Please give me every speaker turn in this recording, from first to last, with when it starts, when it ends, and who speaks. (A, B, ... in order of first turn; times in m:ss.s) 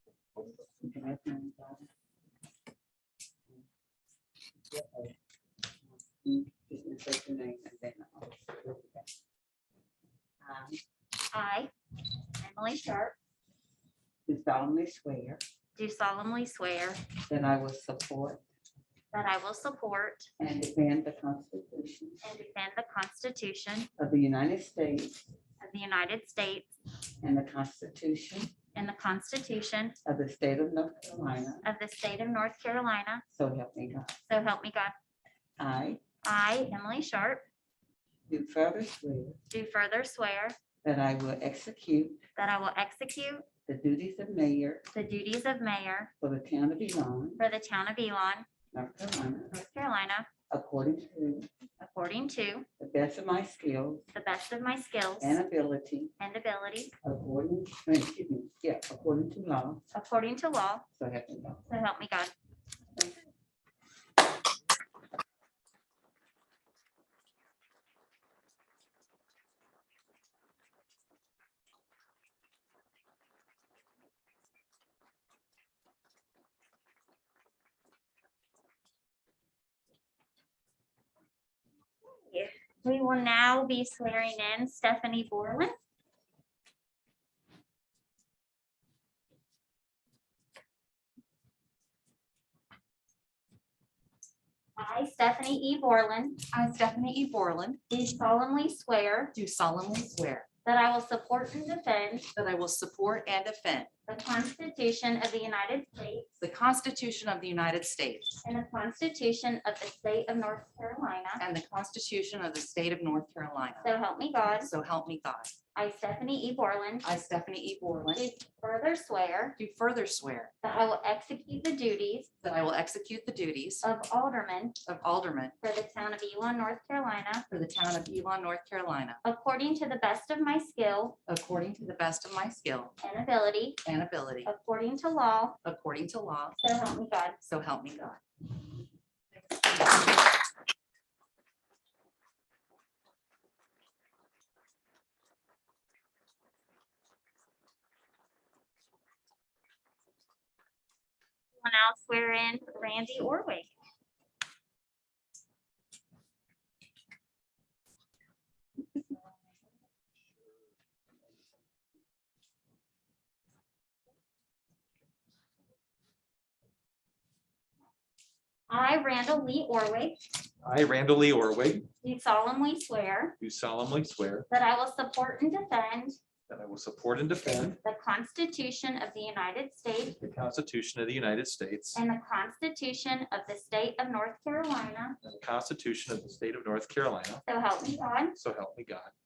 0:00.4-0:01.9 A
0:04.7-0:05.1 A
0:05.9-0:09.1 A
0:10.4-0:10.8 A
0:11.3-0:11.7 B
0:12.4-0:13.1 B
0:14.2-0:15.4 A
0:15.7-0:17.0 B
0:17.3-0:18.4 A
0:19.1-0:20.3 B
0:20.4-0:22.2 A
0:22.2-0:23.9 B
0:24.0-0:25.3 A
0:25.6-0:26.7 B
0:27.2-0:28.5 A
0:28.7-0:30.0 B
0:30.0-0:31.6 A
0:31.6-0:33.2 B
0:33.3-0:34.1 A
0:34.2-0:34.9 B
0:35.6-0:36.0 A
0:36.2-0:37.4 B
0:38.3-0:39.4 A
0:39.5-0:40.6 B
0:40.8-0:42.2 A
0:42.4-0:43.4 B
0:43.6-0:44.8 A
0:44.9-0:46.1 B
0:46.2-0:47.4 A
0:47.4-0:48.5 B
0:48.7-0:49.6 A
0:49.5-0:50.3 B
0:50.5-0:51.5 A
0:51.8-0:52.6 B
0:52.8-0:54.0 A
0:54.1-0:55.4 B
0:55.2-0:56.1 A
0:56.2-0:56.9 B
0:57.0-0:59.8 A
0:59.9-1:00.8 B
1:00.9-1:01.6 A
1:01.7-1:02.3 B
1:22.0-1:25.7 B
1:34.8-1:36.4 B
1:36.5-1:37.8 C
1:37.9-1:39.3 B
1:39.3-1:40.5 C
1:40.6-1:42.3 B
1:42.3-1:43.9 C
1:44.1-1:46.3 B
1:46.4-1:48.4 C
1:48.4-1:51.4 B
1:51.4-1:53.9 C
1:53.8-1:54.7 B
1:54.5-1:55.5 C
1:55.7-1:57.1 B
1:57.0-1:58.2 C
1:58.1-1:59.6 B
1:59.6-2:00.5 C
2:00.6-2:02.3 B
2:02.4-2:03.8 C
2:03.8-2:04.8 B
2:04.8-2:05.5 C
2:05.6-2:07.4 B
2:07.5-2:09.2 C
2:09.2-2:11.2 B
2:11.3-2:12.9 C
2:13.0-2:13.8 B
2:13.8-2:14.5 C
2:14.4-2:15.6 B
2:15.6-2:16.6 C
2:16.6-2:17.4 B
2:17.4-2:18.2 C
2:19.3-2:20.1 C
2:31.6-2:33.7 B
2:48.7-2:50.2 B
2:50.6-2:51.9 D
2:52.0-2:53.4 B
2:53.4-2:54.5 D
2:54.5-2:56.2 B
2:56.5-2:57.8 D
2:57.8-3:00.2 B
3:00.2-3:02.0 D
3:01.9-3:05.2 B
3:05.2-3:07.4 D
3:07.5-3:08.3 B
3:08.3-3:09.1 D